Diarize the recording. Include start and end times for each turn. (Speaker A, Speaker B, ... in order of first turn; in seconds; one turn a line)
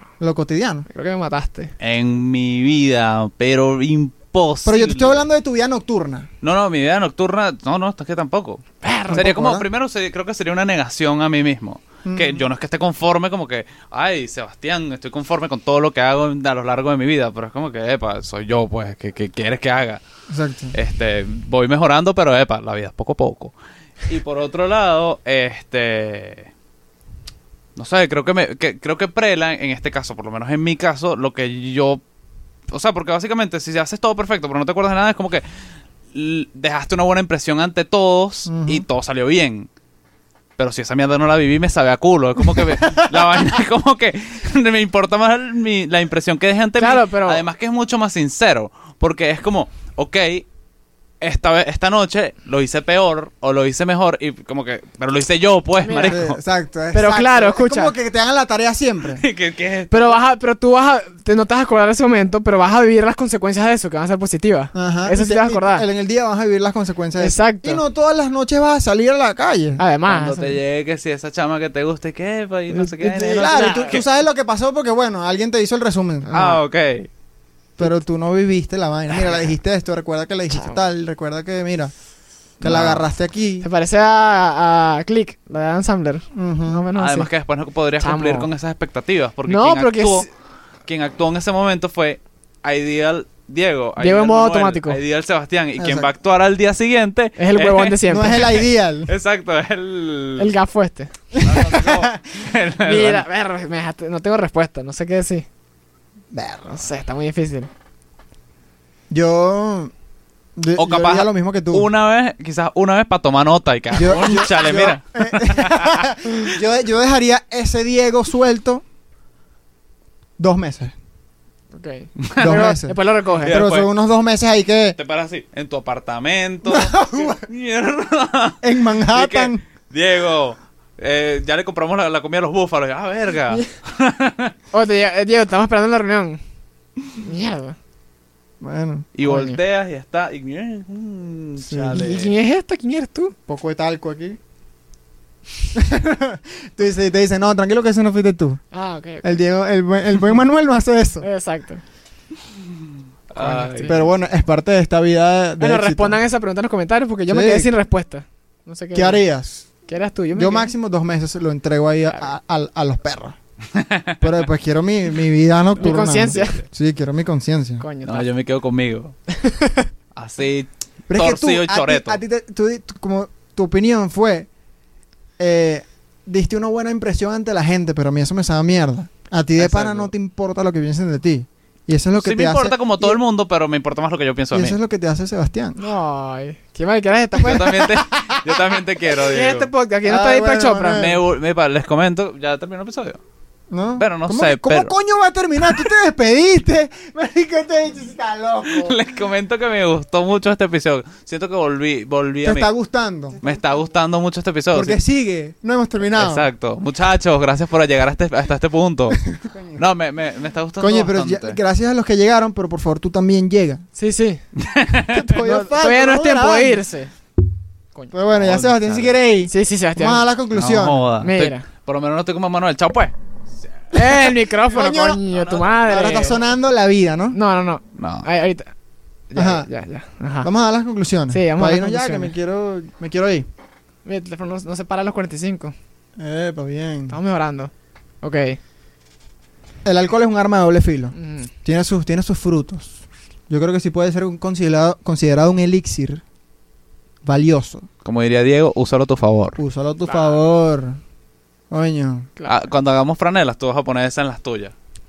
Speaker A: 0.2-0.8
Speaker B: 0.9-1.7
Speaker C: 1.8-5.2
Speaker A: 4.6-6.3
Speaker C: 6.4-20.0
Speaker B: 8.8-9.3
Speaker A: 9.1-9.6
Speaker A: 12.0-12.5
Speaker A: 20.3-20.8
Speaker C: 20.7-23.5
Speaker C: 24.1-26.5
Speaker C: 27.8-32.0
Speaker C: 32.7-35.4
Speaker C: 36.1-39.7
Speaker A: 38.5-38.8
Speaker C: 40.6-50.5
Speaker A: 42.7-43.2
Speaker B: 46.8-47.4
Speaker C: 51.2-56.4
Speaker B: 55.8-56.2
Speaker A: 56.0-59.2
Speaker B: 56.9-57.9
Speaker C: 59.1-60.2
Speaker B: 59.9-65.8
Speaker A: 64.7-69.8
Speaker B: 67.2-67.8
Speaker B: 69.8-70.6
Speaker C: 70.0-74.0
Speaker B: 72.7-74.0
Speaker A: 73.0-76.3
Speaker B: 76.2-76.6
Speaker C: 76.3-77.1
Speaker A: 77.8-81.9
Speaker B: 80.5-80.8
Speaker A: 82.6-83.6
Speaker C: 82.6-83.0
Speaker B: 83.6-87.3
Speaker A: 86.3-86.8
Speaker C: 87.0-90.3
Speaker B: 88.0-88.5
Speaker B: 89.5-90.3
Speaker C: 90.9-98.5
Speaker B: 94.0-95.0
Speaker A: 95.8-96.1
Speaker B: 97.4-98.6
Speaker A: 98.1-99.1
Speaker C: 99.1-100.5
Speaker B: 100.4-101.1
Speaker A: 101.3-102.2
Speaker C: 101.4-103.2
Speaker B: 102.8-105.5
Speaker A: 106.3-106.7
Speaker B: 106.7-107.7
Speaker A: 109.1-109.9
Speaker A: 110.5-111.9
Speaker C: 110.8-116.1
Speaker A: 113.9-118.8
Speaker A: 120.4-120.9
Speaker B: 121.7-123.5
Speaker C: 122.2-122.7
Speaker A: 122.4-125.0
Speaker C: 123.3-123.9
Speaker C: 125.0-134.6
Speaker A: 126.7-127.4
Speaker A: 128.6-129.6
Speaker B: 134.7-136.4
Speaker B: 137.2-137.8
Speaker A: 138.6-139.1
Speaker C: 139.2-142.3
Speaker B: 139.2-139.6
Speaker A: 141.7-141.9
Speaker B: 141.9-143.3
Speaker A: 143.5-144.4
Speaker A: 145.7-148.6
Speaker B: 148.7-149.4
Speaker A: 149.2-151.3
Speaker B: 151.2-151.8
Speaker C: 153.3-153.9
Speaker B: 153.3-154.0
Speaker A: 153.8-156.2
Speaker B: 155.6-159.2
Speaker A: 157.3-157.7
Speaker A: 158.9-159.7
Speaker B: 159.9-160.7
Speaker A: 160.3-163.3
Speaker C: 163.7-164.2
Speaker A: 164.2-167.8
Speaker C: 165.8-166.6
Speaker B: 165.8-166.6
Speaker B: 167.8-168.3
Speaker C: 168.0-169.1
Speaker B: 169.3-169.9
Speaker C: 170.1-172.2
Speaker A: 171.1-174.5
Speaker A: 175.4-183.2
Speaker C: 179.6-180.1
Speaker C: 182.1-184.8
Speaker A: 184.5-185.8
Speaker B: 185.8-188.0
Speaker C: 187.4-189.7
Speaker A: 188.0-188.4
Speaker B: 189.1-191.1
Speaker A: 190.0-191.2
Speaker C: 190.9-193.2
Speaker A: 193.7-199.0
Speaker C: 194.0-194.9
Speaker C: 198.7-202.7
Speaker A: 202.4-203.4
Speaker C: 203.4-205.0
Speaker A: 204.7-206.5
Speaker C: 206.1-211.6
Speaker A: 209.2-209.8
Speaker A: 210.8-213.8
Speaker B: 214.0-214.4
Speaker C: 214.6-215.2
Speaker A: 215.0-216.8
Speaker B: 215.3-217.1
Speaker A: 218.1-221.1
Speaker C: 218.3-219.2
Speaker B: 219.5-220.2
Speaker C: 220.5-223.1
Speaker B: 221.2-221.6
Speaker B: 223.9-226.4
Speaker A: 223.9-225.2
Speaker C: 225.3-225.6
Speaker A: 225.8-227.4
Speaker B: 227.3-228.7
Speaker C: 228.0-228.2
Speaker B: 229.3-230.5
Speaker A: 229.3-229.7
Speaker A: 230.4-233.4
Speaker B: 231.3-232.3
Speaker B: 234.0-235.7
Speaker A: 236.2-237.2
Speaker B: 237.1-237.7
Speaker B: 238.2-238.6
Speaker A: 239.8-246.2
Speaker B: 241.2-241.5
Speaker A: 247.2-247.9
Speaker C: 248.0-249.6
Speaker A: 249.6-251.0
Speaker B: 250.1-250.4
Speaker A: 251.7-252.3
Speaker B: 252.4-252.7
Speaker C: 252.4-254.7